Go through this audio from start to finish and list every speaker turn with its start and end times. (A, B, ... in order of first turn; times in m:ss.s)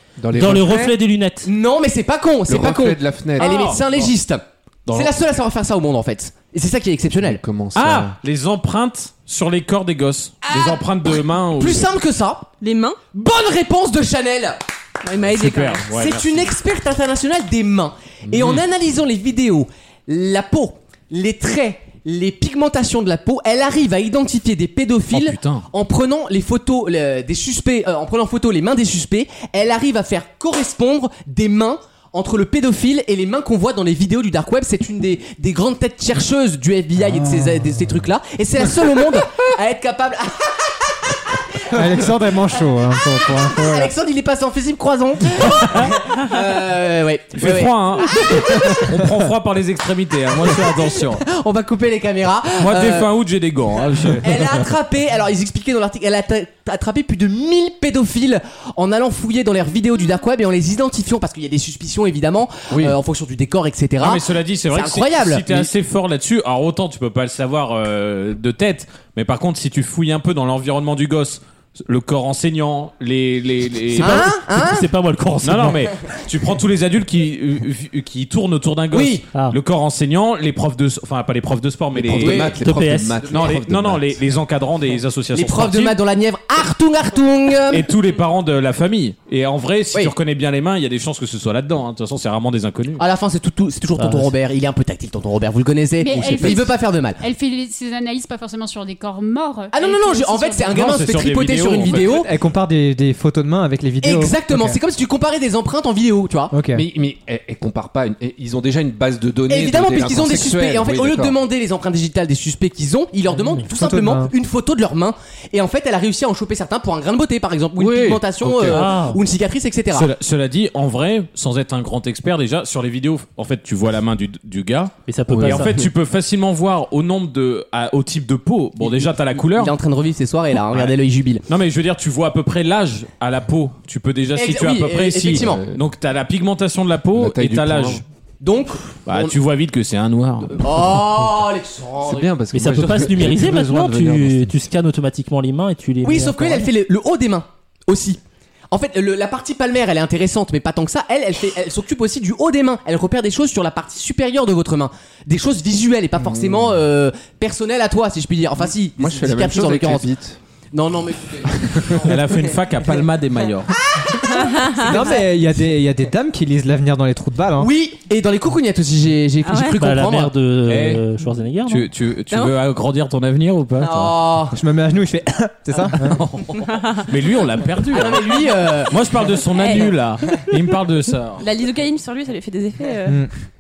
0:00.2-0:00.9 A
0:00.3-0:01.5 B
0:01.4-0:07.4 C
0:02.5-0:03.6 A
0:03.4-0:03.8 D
0:07.2-0:08.2 A
0:07.8-0:11.9 D
0:10.5-0:10.8 C
0:11.6-0:12.5 C
0:12.6-0:13.0 E
0:13.1-0:14.6 C
0:15.0-0:15.8 E
0:15.3-0:16.5 D
0:15.4-0:40.7 C
0:25.1-0:25.7 D
0:37.1-0:37.9 F
0:41.7-0:43.9 F
0:43.5-0:48.9 C
0:45.4-0:45.9 D
0:47.4-0:51.2 D
0:51.2-0:53.1 C
0:52.6-0:54.4 D
0:54.1-1:05.6 C
1:04.0-1:14.3 D
1:13.9-1:15.9 B
1:14.0-1:14.9 C
1:15.4-1:22.6 D
1:18.9-1:19.2 C
1:21.9-1:24.1 A
1:22.2-1:22.6 C
1:22.6-1:23.2 B
1:23.2-1:26.0 D
1:25.3-1:27.8 C
1:27.7-1:33.0 D
1:33.0-1:37.2 C
1:34.0-1:34.3 B
1:36.0-1:40.9 G
1:39.7-1:42.3 C
1:40.7-1:42.1 D
1:41.9-1:44.8 F
1:44.0-1:46.6 C
1:46.5-1:46.9 F
1:46.7-1:51.4 A
1:49.5-2:00.1 C
1:53.4-1:54.3 F
1:57.8-1:58.9 A
1:58.7-1:59.2 B
1:59.9-2:09.7 D
2:05.1-2:05.9 B
2:05.3-2:05.6 A
2:09.4-2:11.4 C
2:11.5-2:18.0 D
2:14.4-2:15.6 C
2:15.4-2:15.8 A
2:17.2-2:18.0 A
2:18.4-2:19.4 C
2:19.1-2:20.8 D
2:20.5-2:22.3 C
2:22.0-2:24.5 A
2:22.5-2:26.7 B
2:26.0-2:28.2 C
2:28.7-2:40.1 C
2:39.0-2:40.4 A
2:40.7-2:42.4 C
2:41.5-2:41.8 A
2:42.0-2:43.7 D
2:44.0-2:45.0 C
2:44.3-2:45.2 E
2:44.8-2:47.7 F
2:47.6-2:50.3 C
2:49.4-2:49.8 E
2:49.8-2:51.9 B
2:50.7-2:51.0 D
2:51.7-2:54.2 D
2:52.3-2:52.6 E
2:53.8-2:54.6 C
2:54.5-2:56.2 F
2:56.0-3:01.4 D
2:56.6-2:57.1 E
2:57.9-2:58.9 C
2:59.6-3:00.0 E
3:01.4-3:03.3 E